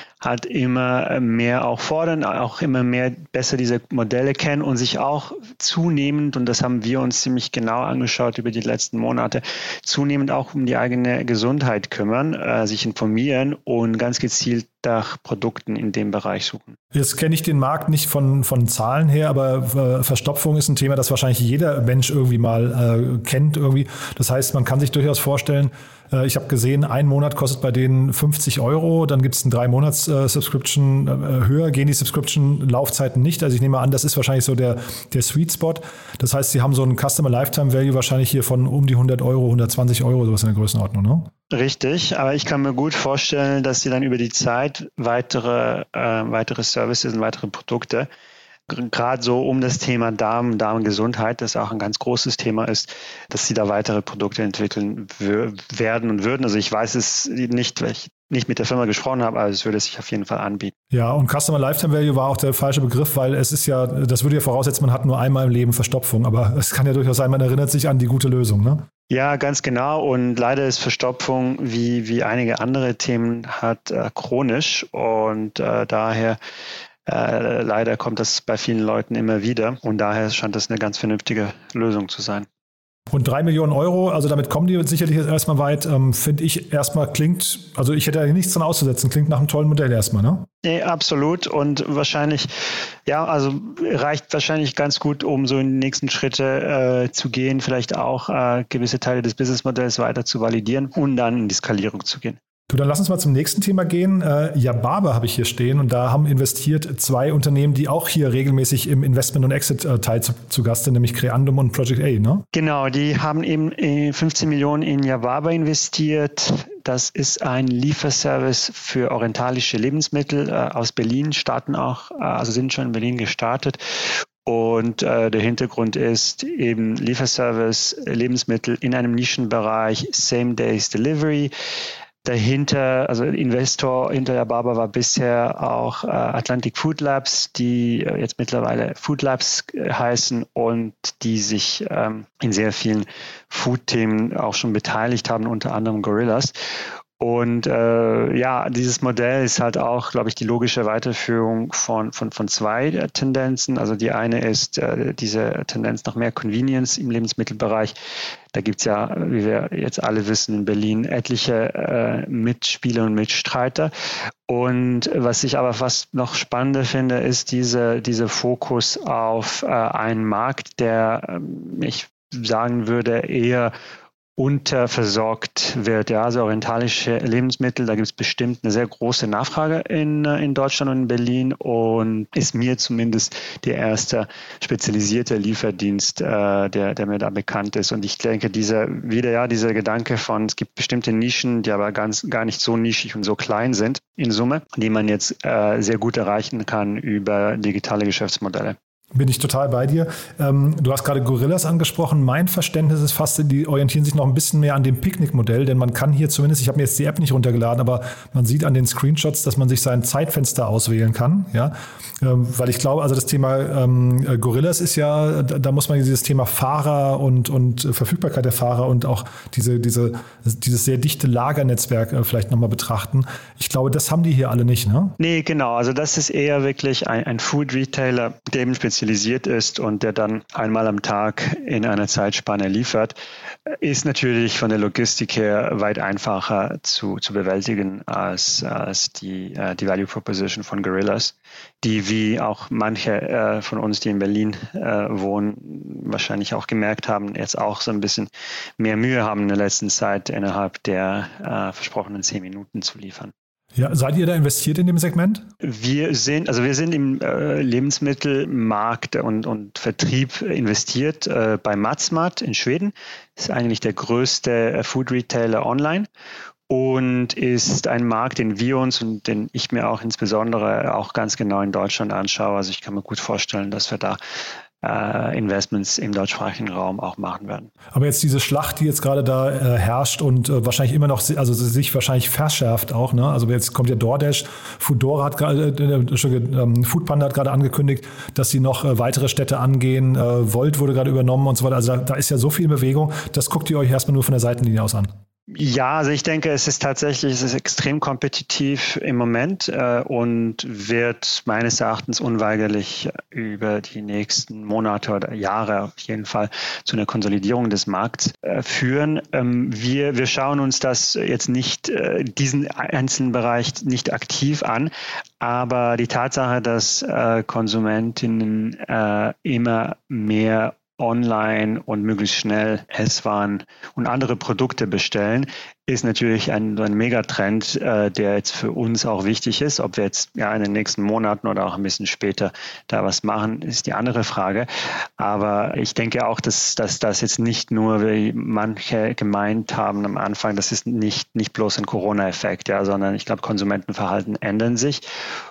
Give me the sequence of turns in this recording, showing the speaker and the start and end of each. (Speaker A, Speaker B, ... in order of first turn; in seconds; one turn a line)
Speaker A: 0.2-16.8
Speaker B: 16.9-41.3
Speaker A: 41.5-48.1
Speaker A: 48.7-60.7
Speaker B: 60.9-68.8
Speaker A: 69.1-76.4
Speaker A: 77.0-82.5
Speaker B: 83.1-90.5
Speaker A: 90.6-92.5
Speaker A: 93.1-102.4
Speaker B: 102.7-112.4
Speaker A: 112.5-123.8
Speaker A: 124.4-131.5
Speaker A: 132.2-146.6
Speaker A: 147.2-157.9
Speaker A: 158.5-163.9
Speaker A: 164.5-173.7
Speaker A: 174.4-198.8
Speaker B: 199.1-225.1
Speaker A: 225.2-233.2
Speaker A: 233.7-253.3
Speaker B: 253.7-255.4
Speaker A: 255.6-266.1
Speaker A: 266.7-274.2
Speaker A: 274.8-277.7
Speaker B: 277.9-295.1
Speaker A: 295.5-345.0